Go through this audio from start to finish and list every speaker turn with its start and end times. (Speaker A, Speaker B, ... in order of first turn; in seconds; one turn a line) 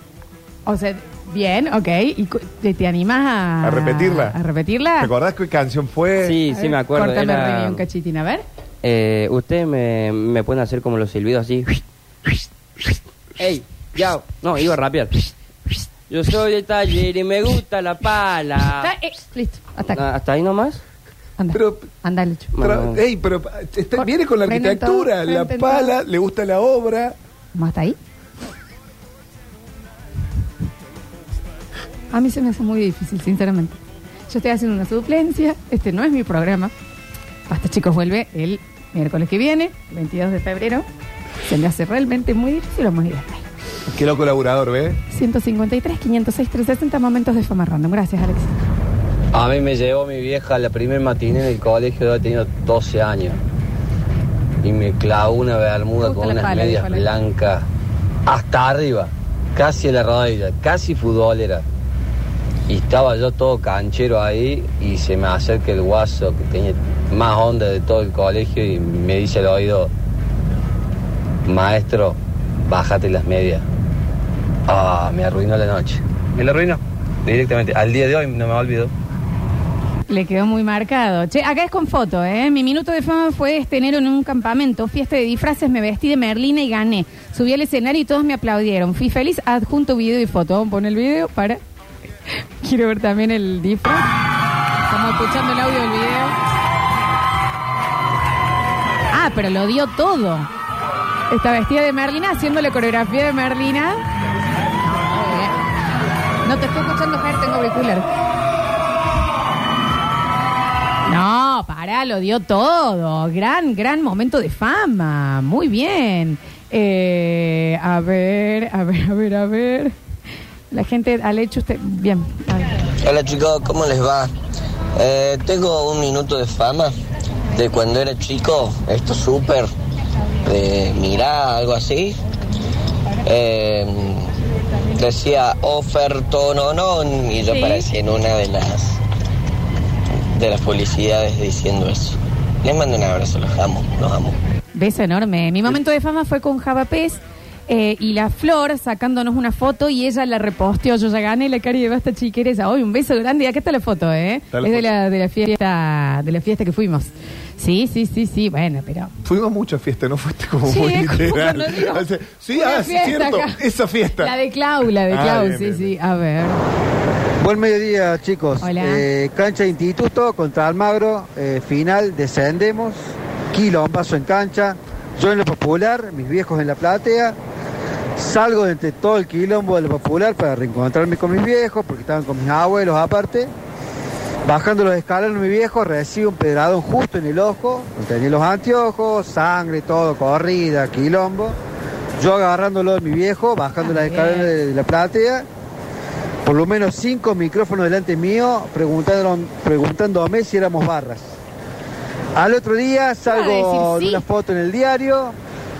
Speaker A: 0.7-5.1
Speaker B: 3.6-4.4
Speaker B: 5.0-6.4
Speaker C: 6.2-7.8
Speaker A: 6.5-8.4
Speaker C: 8.8-11.8
Speaker C: 13.4-15.3
Speaker C: 16.1-18.9
Speaker A: 18.8-20.0
Speaker C: 19.9-20.8
Speaker A: 21.4-22.5
Speaker B: 21.5-21.9
Speaker C: 22.5-23.0
Speaker B: 22.6-27.1
Speaker A: 23.9-25.9
Speaker A: 27.5-28.0
Speaker A: 32.1-33.8
Speaker A: 34.3-36.7
Speaker A: 37.5-40.8
Speaker A: 41.4-43.4
Speaker B: 43.9-45.0
Speaker A: 45.1-48.5
Speaker D: 49.3-53.4
Speaker D: 54.6-57.6
Speaker A: 56.0-57.1
Speaker D: 58.2-61.6
Speaker D: 62.7-69.9
Speaker D: 71.5-73.6
Speaker D: 74.7-78.9
Speaker A: 80.1-91.6
Speaker A: 92.6-94.1
Speaker A: 94.8-96.3
Speaker A: 99.1-100.5
Speaker A: 101.3-104.0
Speaker A: 104.8-105.6
Speaker A: 106.4-108.0
Speaker A: 111.0-119.9
Speaker A: 120.7-122.7
Speaker E: 123.0-124.3
Speaker E: 125.0-127.0
Speaker E: 127.5-129.7
Speaker E: 130.4-132.2
Speaker E: 133.2-134.3
Speaker E: 134.9-139.0
Speaker A: 137.5-137.8
Speaker E: 140.3-144.3
Speaker A: 144.7-159.1
Speaker B: 154.5-154.9
Speaker B: 159.2-164.3
Speaker A: 160.7-163.6
Speaker A: 164.2-166.6
Speaker B: 165.1-165.9
Speaker F: 167.4-173.0
Speaker A: 168.6-169.0
Speaker F: 173.5-177.3
Speaker F: 178.2-183.5
Speaker F: 184.4-191.6
Speaker F: 192.2-195.4
Speaker A: 193.8-194.5
Speaker F: 196.4-201.3
Speaker F: 202.3-205.3
Speaker A: 203.2-204.2